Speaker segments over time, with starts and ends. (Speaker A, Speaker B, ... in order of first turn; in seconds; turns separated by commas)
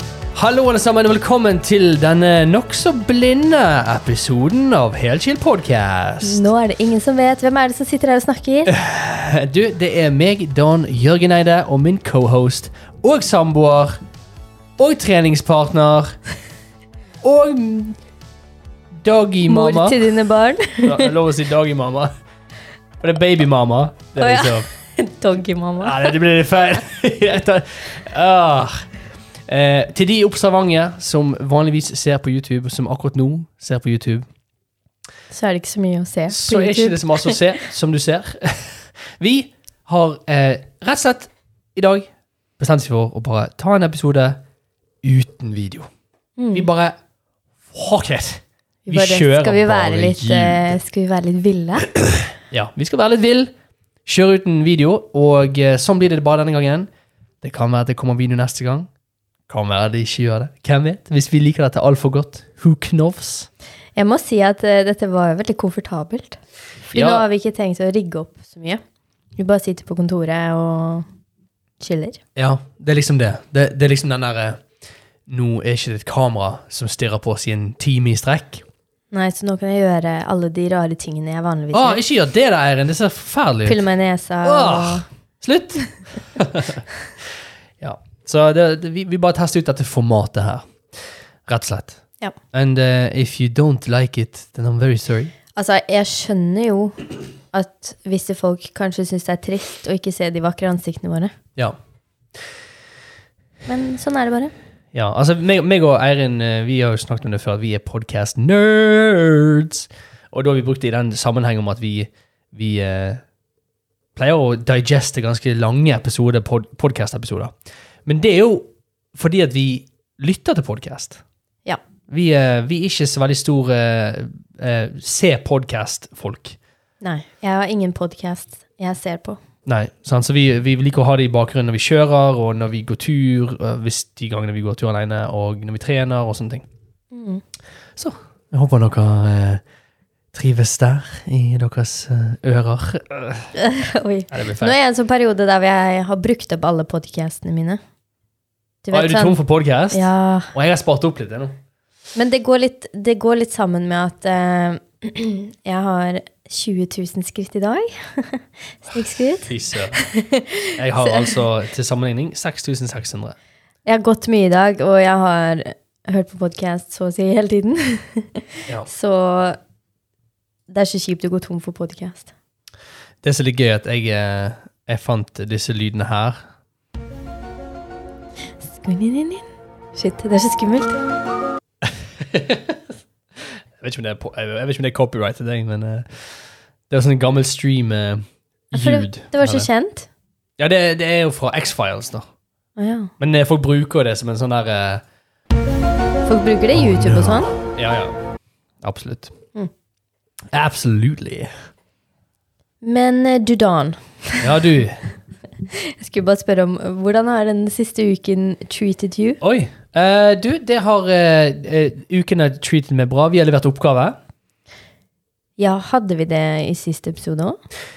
Speaker A: 0.3-6.5, Speaker B: 6.2-8.7, Speaker A: 8.7-13.9, Speaker A: 14.8-16.2, Speaker A: 17.2-18.0, Speaker A: 18.9-20.1, Speaker B: 19.5-21.1, Speaker A: 20.8-22.1, Speaker A: 23.0-24.7, Speaker B: 24.2-26.1, Speaker A: 25.8-28.8, Speaker A: 29.5-34.3, Speaker B: 35.3-37.4, Speaker A: 36.3-44.4, Speaker A: 45.0-45.9, Speaker B: 46.4-46.7, Speaker A: 46.5-47.0, Speaker A: 47.7-50.8, Speaker B: 48.9-51.9, Speaker A: 52.4-53.5, Speaker A: 54.0-56.9, Speaker A: 57.4-58.9, Speaker A: 59.5-63.5, Speaker B: 64.0-68.8, Speaker A: 66.9-67.2, Speaker B: 69.4-71.0, Speaker B: 71.8-72.2, Speaker A: 72.3-74.6, Speaker A: 75.3-78.6, Speaker B: 79.1-82.0, Speaker A: 81.7-83.8, Speaker B: 83.6-85.1, Speaker A: 84.4-95.3, Speaker B: 95.5-101.3, Speaker B: 103.7-104.5, Speaker A: 104.9-113.2, Speaker A: 114.2-117.5, Speaker A: 118.0-121.2, Speaker A: 122.1-126.6, Speaker B: 127.0-129.4, Speaker A: 129.7-136.7, Speaker B: 137.1-137.4, Speaker A: 138.0-139.6, Speaker A: 140.3-143.5, Speaker B: 143.6-147.8, Speaker A: 144.3-144.7, Speaker B: 148.8-150.5, Speaker A: 148.9-151.5, Speaker B: 152.1-161.4, Speaker A: 159.4-160.0, Speaker A: 160.8-163.3, Speaker B: 163.8-169.6, Speaker B: 170.7-172.3, Speaker A: 173.2-176.5, Speaker B: 178.6-181.0, Speaker A: 181.8-182.8, Speaker A: 183.4-189.7, Speaker B: 188.7-190.1, Speaker A: 190.6-192.2, Speaker B: 192.8-193.1, Speaker A: 193.2-195.0, Speaker B: 196.2-197.5, Speaker A: 196.8-198.2, Speaker A: 198.8-199.3, Speaker A: 200.5-201.5, Speaker B: 202.8-204.6, Speaker A: 204.4-205.0, Speaker B: 205.7-209.4, Speaker A: 209.4-214.2, Speaker B: 215.6-217.6